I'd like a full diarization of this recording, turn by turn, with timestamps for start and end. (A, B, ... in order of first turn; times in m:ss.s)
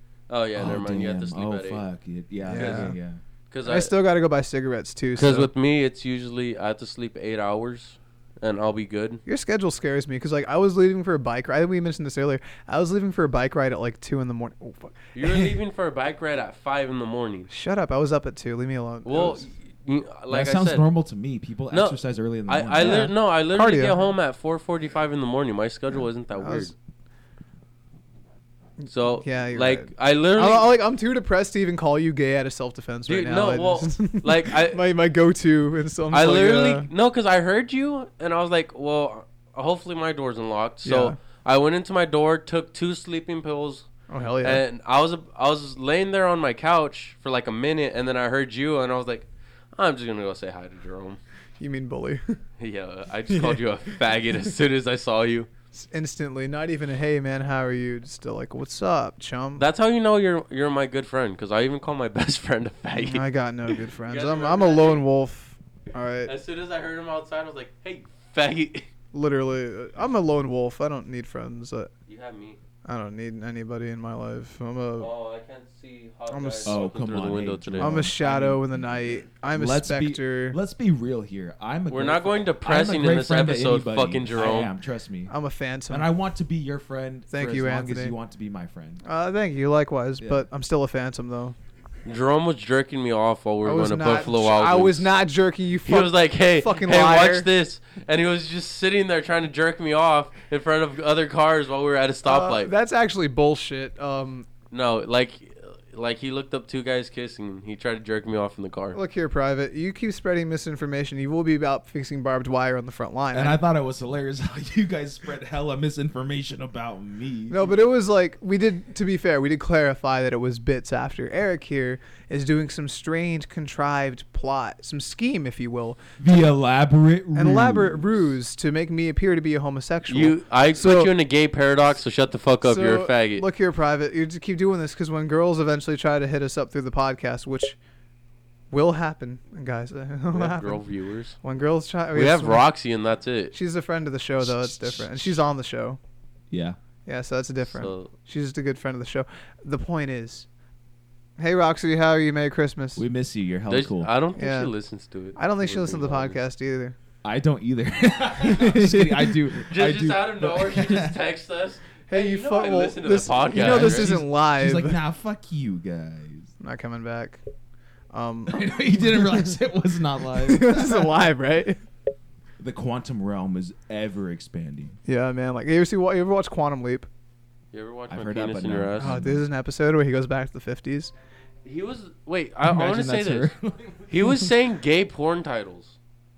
0:00.3-0:01.8 A
0:00.6-0:03.2 B
0:02.5-0:02.9 C
0:02.5-0:02.9 A
0:03.5-0:03.9 A
0:03.6-0:05.5 C
0:05.2-0:09.2 A
0:09.2-0:15.5 C
0:15.1-0:17.5 A
0:17.5-0:19.5 C
0:19.0-0:20.8 A
0:20.3-0:23.1 B
0:21.7-0:26.7 A
0:22.8-0:24.0 C
0:26.3-0:26.7 C
0:28.8-0:36.9 C
0:28.9-0:30.8 A
0:33.1-0:34.8 A
0:36.1-0:43.9 A
0:40.8-0:41.2 C
0:44.1-0:44.6 C
0:44.4-0:51.2 A
0:51.6-0:52.4 C
0:52.6-0:55.5 A
0:53.3-0:54.0 C
0:55.7-0:59.6 C
0:59.6-1:05.0 A
1:03.0-1:06.3 C
1:06.2-1:08.9 A
1:09.1-1:11.9 C
1:12.1-1:12.6 A
1:12.8-1:15.1 C
1:15.0-1:18.1 A
1:16.3-1:16.8 C
1:16.6-1:25.3 B
1:17.8-1:20.6 C
1:21.9-1:24.7 A
1:25.3-1:26.1 C
1:25.9-1:29.0 B
1:27.3-1:28.2 C
1:29.0-1:31.6 C
1:30.2-1:30.4 B
1:32.0-1:35.1 A
1:33.6-1:37.5 C
1:35.8-1:42.7 A
1:42.2-1:44.5 C
1:44.7-1:49.0 A
1:48.9-1:53.6 C
1:53.3-1:57.6 B
1:57.5-2:06.0 C
2:06.2-2:08.3 B
2:07.3-2:11.1 C
2:10.1-2:13.4 A
2:12.6-2:17.8 C
2:18.7-2:20.8 C
2:20.3-2:21.4 A
2:21.4-2:22.7 C
2:22.1-2:23.5 A
2:23.5-2:26.0 C
2:24.4-2:25.4 B
2:26.5-2:26.8 B
2:27.0-2:30.5 C
2:27.7-2:28.1 A
2:31.4-2:33.0 C
2:33.0-2:34.1 B
2:33.7-2:36.4 A
2:34.3-2:34.7 C
2:35.4-2:37.0 C
2:37.2-2:41.2 B
2:38.4-2:39.4 C
2:39.7-2:44.2 A
2:42.1-2:45.0 C
2:43.5-2:46.5 B
2:46.6-2:47.4 C
2:48.1-2:49.4 C
2:48.5-2:51.1 B
2:50.4-2:51.8 C
2:52.6-2:55.0 B
2:55.1-2:57.1 C
2:57.7-2:59.2 A
2:58.1-2:59.4 B
2:59.0-3:01.1 C
3:01.6-3:03.5 A
3:02.6-3:04.5 B
3:04.1-3:05.9 A